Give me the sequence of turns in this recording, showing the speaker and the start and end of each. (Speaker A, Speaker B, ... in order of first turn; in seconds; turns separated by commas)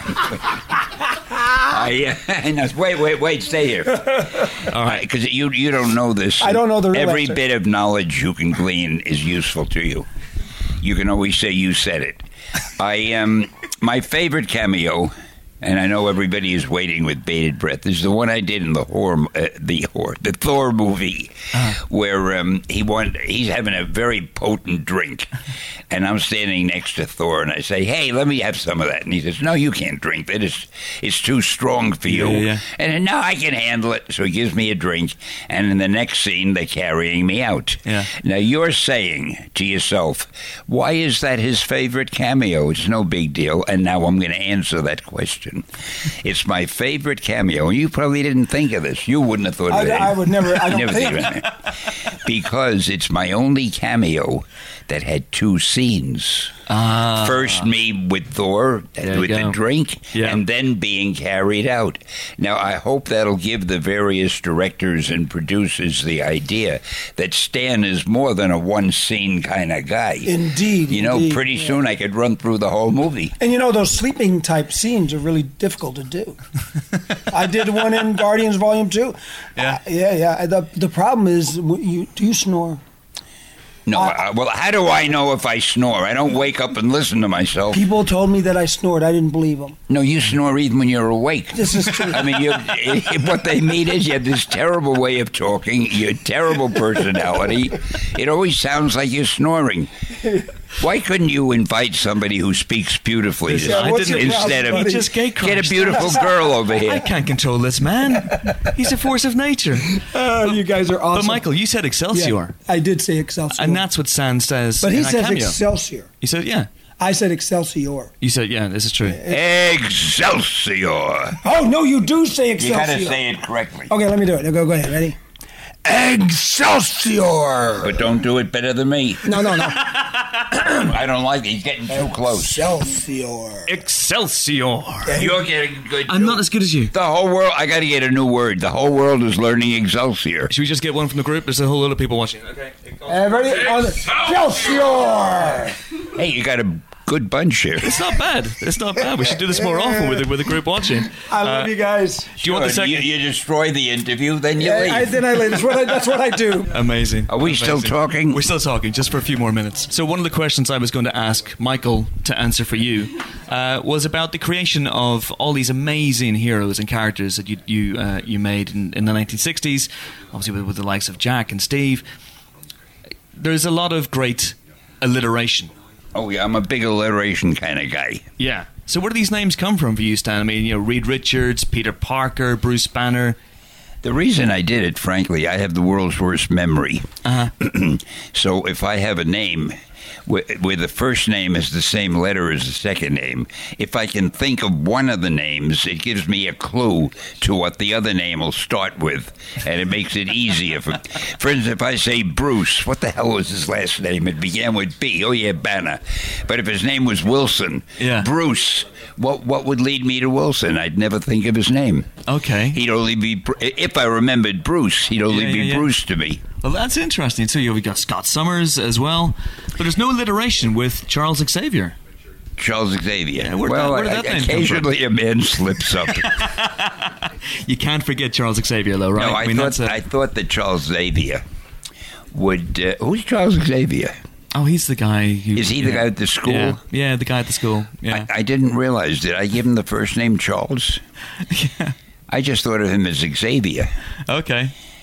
Speaker A: 1.5-10.1, Speaker B: 4.7-5.0, Speaker C: 6.4-7.4, Speaker A: 10.8-25.3, Speaker B: 21.5-21.8, Speaker A: 25.9-56.6, Speaker B: 32.1-32.6, Speaker B: 37.9-38.1, Speaker C: 49.7-51.4, Speaker B: 56.7-57.6, Speaker A: 57.1-70.4, Speaker B: 59.0-59.6, Speaker B: 60.1-60.4, Speaker C: 70.2-71.8, Speaker A: 70.9-73.3, Speaker C: 73.4-76.4, Speaker C: 77.3-82.8, Speaker A: 83.9-87.8, Speaker C: 87.7-89.8, Speaker A: 89.9-99.9, Speaker C: 91.5-92.5, Speaker A: 100.8-107.1, Speaker C: 103.5-105.1, Speaker B: 103.6-106.2, Speaker C: 105.9-106.2, Speaker B: 106.8-112.5, Speaker C: 109.9-111.5, Speaker C: 112.1-113.8, Speaker B: 113.5-115.6, Speaker C: 114.8-116.1, Speaker B: 116.2-116.7, Speaker C: 117.0-118.1, Speaker B: 118.2-119.2, Speaker C: 119.0-119.4, Speaker A: 119.3-121.4, Speaker C: 121.4-123.2, Speaker A: 122.6-123.9, Speaker C: 123.9-125.2, Speaker C: 125.8-128.1, Speaker A: 127.8-129.5, Speaker C: 129.2-130.0, Speaker A: 130.7-132.7, Speaker C: 131.9-133.8, Speaker B: 133.7-135.1, Speaker C: 135.0-135.4, Speaker A: 135.1-140.5, Speaker B: 136.1-136.9, Speaker B: 140.5-143.5, Speaker C: 143.1-145.8, Speaker A: 146.1-148.0, Speaker B: 147.8-151.7, Speaker C: 149.7-150.2, Speaker C: 151.2-152.3, Speaker B: 152.4-153.1, Speaker A: 152.4-155.3, Speaker C: 154.6-156.7, Speaker B: 156.7-172.0, Speaker A: 157.3-158.4, Speaker B: 173.3-175.7, Speaker A: 176.1-178.3, Speaker B: 178.4-183.4, Speaker A: 184.0-212.1, Speaker B: 187.2-187.5, Speaker B: 208.0-208.3, Speaker B: 212.2-212.8, Speaker A: 212.7-216.4, Speaker B: 215.3-215.9, Speaker B: 216.6-221.9, Speaker A: 222.6-226.4, Speaker B: 223.4-224.9, Speaker B: 226.1-230.0, Speaker A: 229.1-231.4, Speaker A: 232.3-234.1, Speaker B: 234.5-238.3, Speaker A: 235.5-236.8, Speaker A: 238.1-241.0, Speaker B: 241.5-241.9, Speaker A: 242.3-243.9, Speaker B: 244.3-244.7